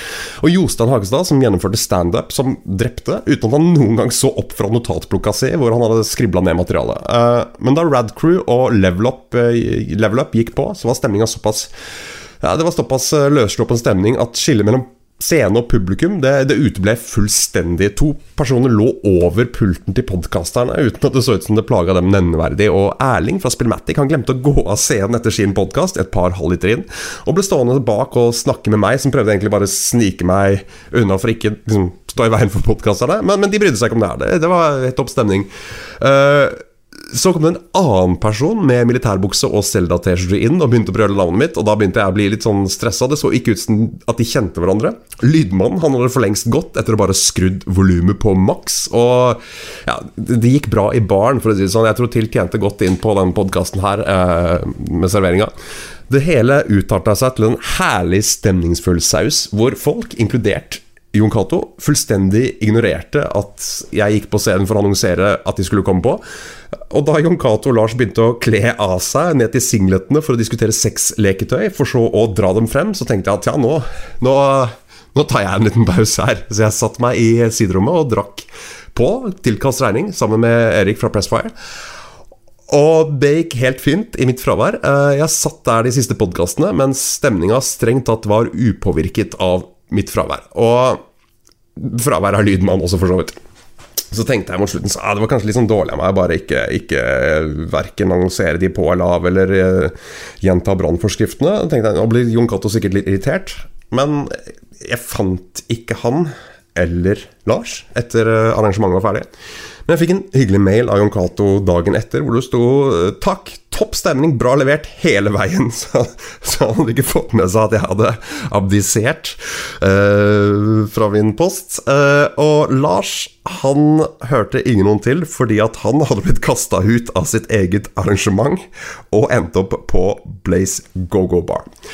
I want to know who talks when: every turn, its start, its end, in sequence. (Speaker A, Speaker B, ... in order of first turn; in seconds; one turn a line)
Speaker A: 0.4-11.7
Speaker A: 12.4-35.5
Speaker A: 36.0-55.5
Speaker A: 56.1-66.2
Speaker A: 66.9-81.5
Speaker A: 82.7-91.0
Speaker A: 91.8-93.4
Speaker A: 94.1-109.3
Speaker A: 109.8-131.7